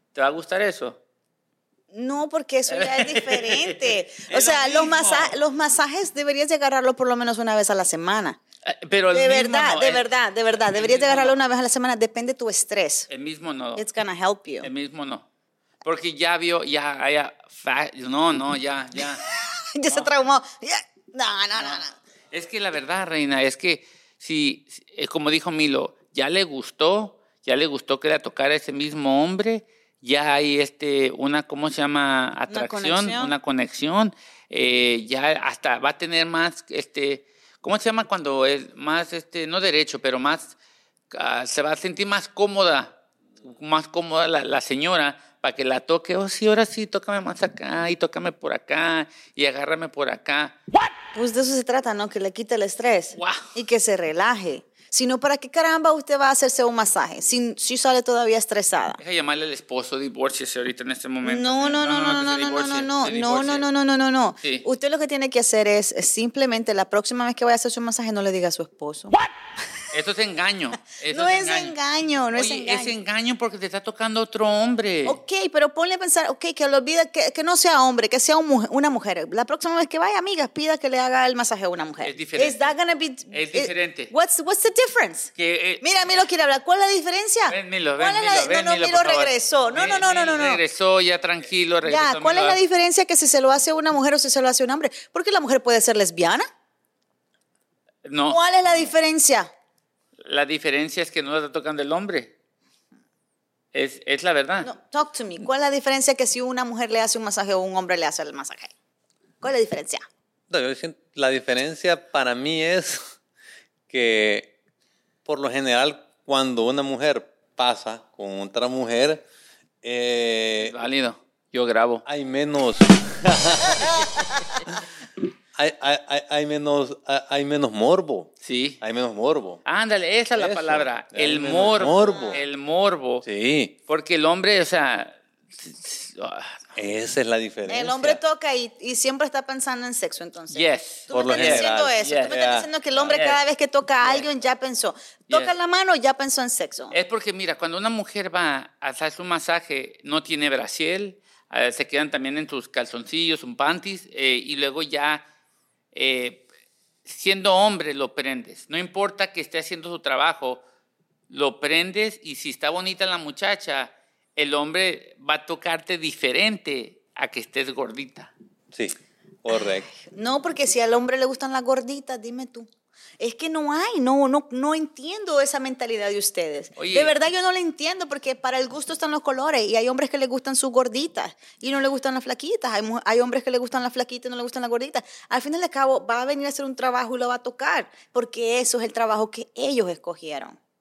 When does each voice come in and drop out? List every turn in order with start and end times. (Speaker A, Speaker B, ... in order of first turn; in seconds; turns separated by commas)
Speaker A: 0.1-1.0, Speaker B: 1.9-8.4, Speaker A: 2.7-5.3, Speaker A: 8.6-10.1, Speaker B: 9.1-13.1, Speaker A: 10.7-11.3, Speaker A: 13.1-13.8, Speaker B: 13.8-14.7, Speaker A: 14.6-15.2, Speaker A: 15.8-19.2, Speaker B: 19.2-21.9, Speaker A: 21.6-40.5, Speaker B: 32.5-33.3, Speaker A: 41.1-50.5, Speaker B: 51.1-59.0, Speaker A: 53.1-53.4, Speaker A: 59.0-63.6, Speaker B: 61.2-69.2, Speaker A: 64.4-64.7, Speaker A: 69.9-71.8, Speaker B: 71.1-73.0, Speaker A: 72.3-75.2, Speaker B: 75.0-85.3, Speaker A: 82.0-82.7, Speaker A: 83.3-84.1, Speaker A: 85.3-85.8, Speaker B: 85.8-90.6, Speaker A: 87.5-92.6, Speaker B: 91.8-96.4, Speaker A: 98.0-98.9, Speaker B: 98.3-99.5, Speaker A: 100.2-102.3, Speaker A: 103.7-104.7, Speaker B: 104.6-108.7, Speaker B: 109.4-110.0, Speaker C: 110.5-113.0, Speaker C: 113.9-114.5, Speaker C: 115.2-119.2, Speaker C: 119.8-120.7, Speaker A: 120.6-122.0, Speaker C: 122.0-124.0, Speaker C: 125.5-129.6, Speaker A: 128.4-128.8, Speaker A: 129.6-133.2, Speaker C: 130.3-132.4, Speaker B: 132.0-132.4, Speaker C: 133.2-133.7, Speaker A: 133.9-136.6, Speaker C: 136.7-138.2, Speaker B: 137.7-147.0, Speaker A: 140.5-142.4, Speaker C: 141.1-142.8, Speaker A: 142.9-143.4, Speaker A: 144.0-144.3, Speaker A: 146.9-155.2, Speaker A: 155.9-156.4, Speaker A: 157.0-160.6, Speaker A: 161.3-168.3, Speaker C: 168.7-169.9, Speaker B: 169.5-172.7, Speaker B: 173.2-190.6, Speaker A: 176.8-177.1